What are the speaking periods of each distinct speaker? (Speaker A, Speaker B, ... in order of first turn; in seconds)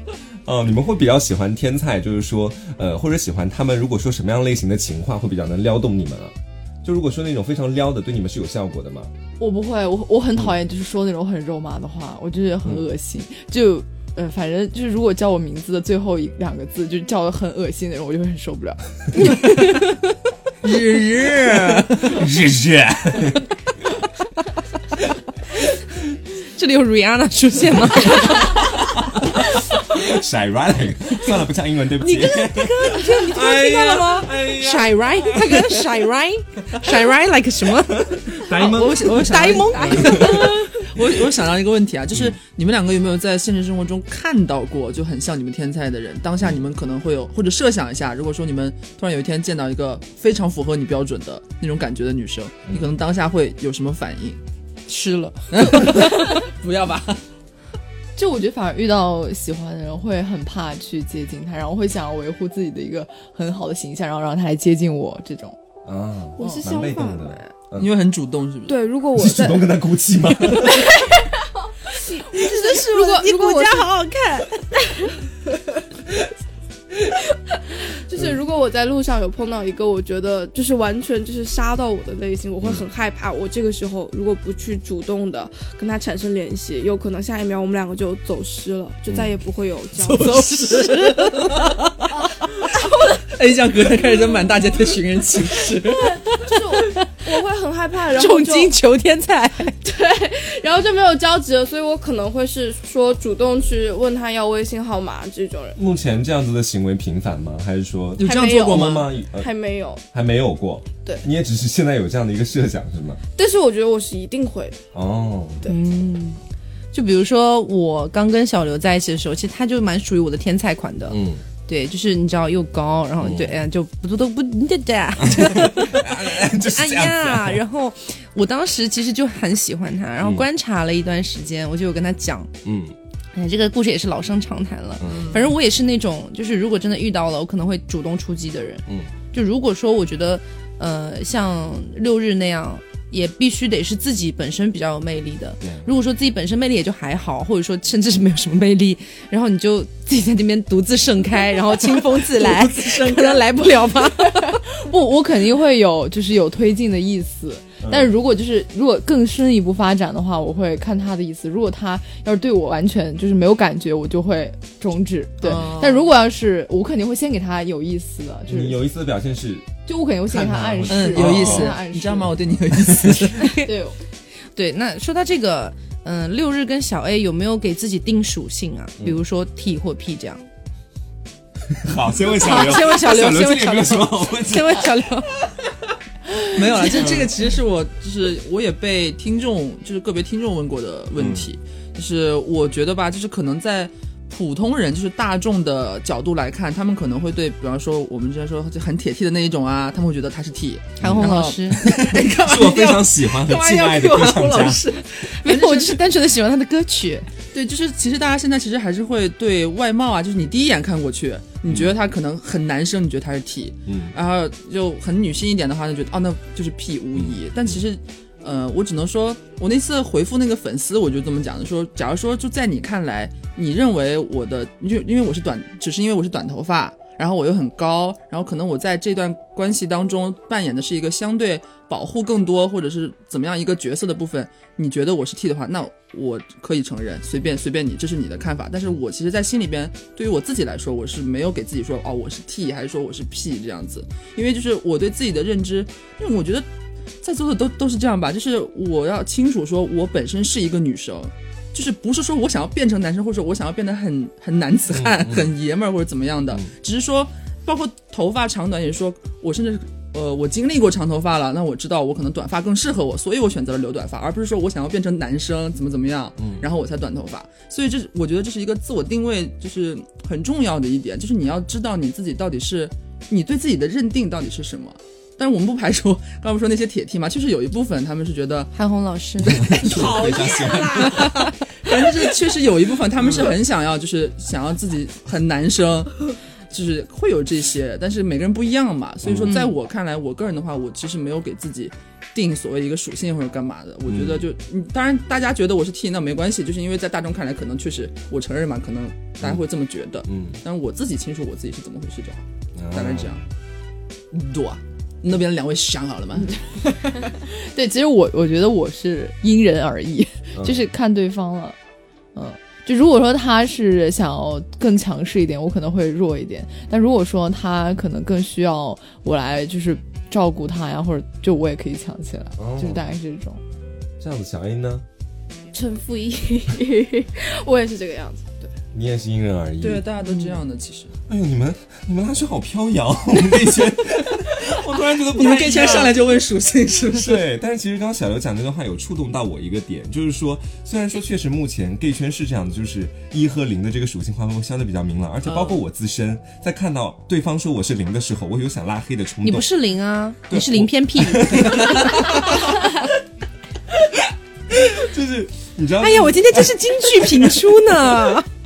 Speaker A: 0.4-9.1, 21.7-23.4, 28.0-35.9, 37.9-40.6, 52.7-52.9, 65.8-67.9, 69.1-70.9, 105.8-109.5, 110.1-113.2, 114.9-115.6, 121.1-121.4, 123.2-123.6, 125.2-127.6, 130.2-130.4, 132.6-132.9, 135.0-135.4, 145.6-145.9, 157.8-158.1, 168.5-171.8, 172.7-173.3, 181.7-185.0, 186.8-187.3, 191.2-191.5, 201.0-204.8, 211.7-211.9, 213.8-214.1, 217.2-217.8, 254.9-255.5, 266.4-266.6, 279.6-281.4, 283.2-283.6, 289.2-289.6, 294.1-294.5, 299.4-299.6, 300.2-300.6, 302.8-303.4, 310.6-310.9, 322.6-323.0, 324.2-325.0, 328.9-330.1, 331.3-336.2, 337.1-349.7, 350.5-353.1, 354.1-358.1
Speaker B: 9.4-19.8, 58.1-65.6, 154.4-168.8, 169.8-172.3, 173.5-174.0, 306.6-311.8, 312.3-323.6
Speaker C: 19.1-20.0, 26.5-28.7, 32.0-40.6, 54.9-56.1, 72.3-74.5, 90.3-91.4, 98.1-99.8, 115.7-116.4, 116.9-132.5, 133.3-154.6, 173.3-173.7, 174.5-180.4, 182.3-185.3, 201.0-201.8, 205.2-207.3, 278.7-280.6, 289.5-289.7, 349.4-352.4, 356.0-358.4
Speaker D: 20.6-22.2, 38.5-54.4, 55.5-57.2, 67.7-68.8, 89.9-92.0, 93.2-96.2, 108.2-109.0, 135.1-135.4, 152.3-153.4, 165.4-166.1, 170.9-173.5, 186.5-206.0, 207.5-246.7, 247.2-278.7, 279.4-302.4, 302.9-303.4, 304.3-306.6, 329.8-331.1, 335.1-337.4, 345.4-345.8
Speaker E: 66.4-67.5, 68.7-69.7, 70.5-75.2, 77.1-90.5, 92.6-93.2, 96.0-98.7, 99.8-105.8, 108.2-110.0, 113.3-114.8, 325.7-328.7